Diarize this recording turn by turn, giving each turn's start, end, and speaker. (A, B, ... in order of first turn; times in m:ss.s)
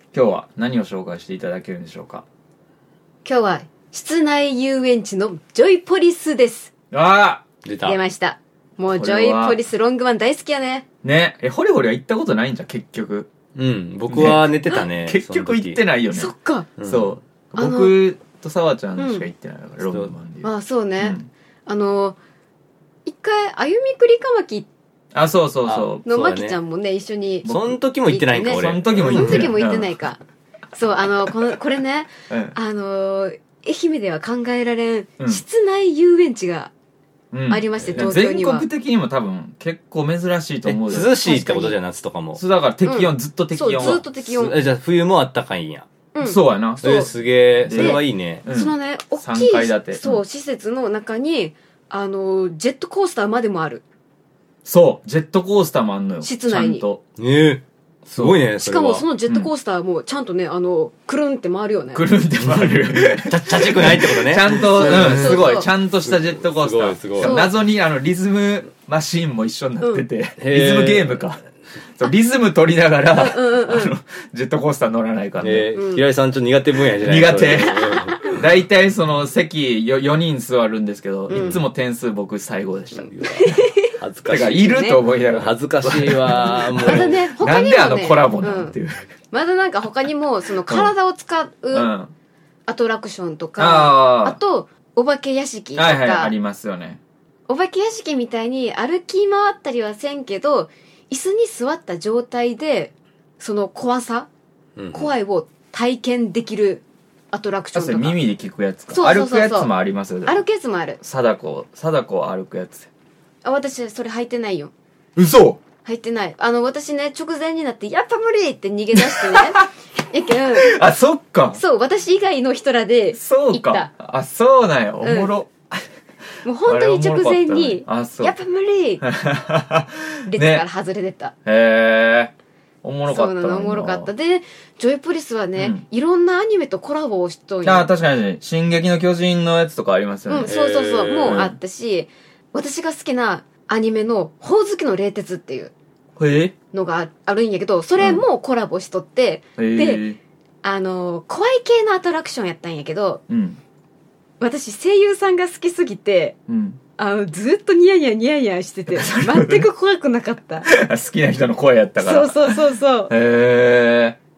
0:00.1-0:02.2 A
0:03.2-0:06.7 B
0:06.9-0:07.4 A
0:07.6-0:08.0 C
0:07.8-0:10.8 B
0:08.9-0:09.6 A
0:11.0-0:13.3 A
0:13.5-0:15.8 C
0:14.1-0:16.3 A
0:16.1-0:16.7 B
0:16.8-0:17.1 C
0:16.8-0:21.3 A
0:17.5-0:18.0 B
0:19.0-0:19.3 B
0:19.8-0:20.1 C
0:20.4-0:22.2 B
0:23.0-0:24.7 B
0:25.1-0:26.1 A
0:25.6-0:26.6 C
0:26.0-0:30.2 B
0:27.4-0:27.8 A
0:27.5-0:29.5 C
0:28.5-0:30.0 A
0:30.7-0:36.7 B
0:32.3-0:32.6 A
0:37.3-0:41.1 A
0:37.5-0:38.7 B
0:37.8-0:38.1 C
0:40.6-0:42.4 C
0:40.9-0:41.8 B
0:42.4-0:44.0 A
0:42.8-0:44.6 B
0:43.8-0:45.9 C
0:46.1-0:47.1 B
0:46.2-0:46.9 A
0:46.8-0:48.4 C
0:47.6-0:50.2 A
0:47.7-0:53.8 B
0:54.6-0:57.0 A
0:56.2-0:56.8 B
0:57.2-0:59.0 C
0:58.1-0:58.4 A
0:58.6-1:02.1 B
1:01.9-1:11.4 A
1:02.4-1:07.4 C
1:04.5-1:05.7 B
1:07.2-1:07.5 B
1:09.8-1:10.0 B
1:10.4-1:11.3 C
1:12.0-1:15.7 A
1:13.1-1:14.0 B
1:15.4-1:18.2 C
1:15.7-1:16.0 B
1:17.0-1:23.1 A
1:17.5-1:18.3 B
1:21.3-1:21.6 C
1:21.3-1:21.6 B
1:23.1-1:27.2 C
1:23.3-1:25.0 B
1:24.3-1:29.1 A
1:26.7-1:28.8 B
1:29.3-1:31.9 B
1:30.6-1:30.9 A
1:31.7-1:32.1 A
1:32.7-1:36.3 B
1:33.6-1:34.4 A
1:35.7-1:37.0 A
1:37.5-1:44.3 B
1:44.8-1:45.1 C
1:44.9-1:48.2 B
1:47.7-1:50.4 A
1:48.9-1:51.0 B
1:51.0-1:52.9 A
1:53.4-1:54.7 B
1:55.2-1:55.6 A
1:55.8-2:00.8 B
1:59.0-1:59.6 A
2:00.5-2:01.6 A
2:01.5-2:03.9 B
2:03.1-2:05.8 A
2:05.0-2:05.3 B
2:06.4-2:09.0 B
2:06.6-2:08.4 A
2:09.0-2:10.6 A
2:10.2-2:11.3 B
2:11.4-2:14.1 A
2:13.1-2:17.9 B
2:15.6-2:15.8 A
2:17.6-2:20.5 A
2:20.3-2:25.7 B
2:20.5-2:21.4 C
2:21.2-2:21.5 A
2:26.2-2:26.5 A
2:26.7-2:30.0 B
2:28.0-2:28.2 A
2:29.6-2:30.2 A
2:30.6-2:33.2 B
2:33.3-2:33.6 A
2:34.4-2:36.4 B
2:36.5-2:36.8 A
2:37.0-2:40.7 B
2:38.9-2:39.6 A
2:40.6-2:44.2 A
2:42.0-2:43.1 B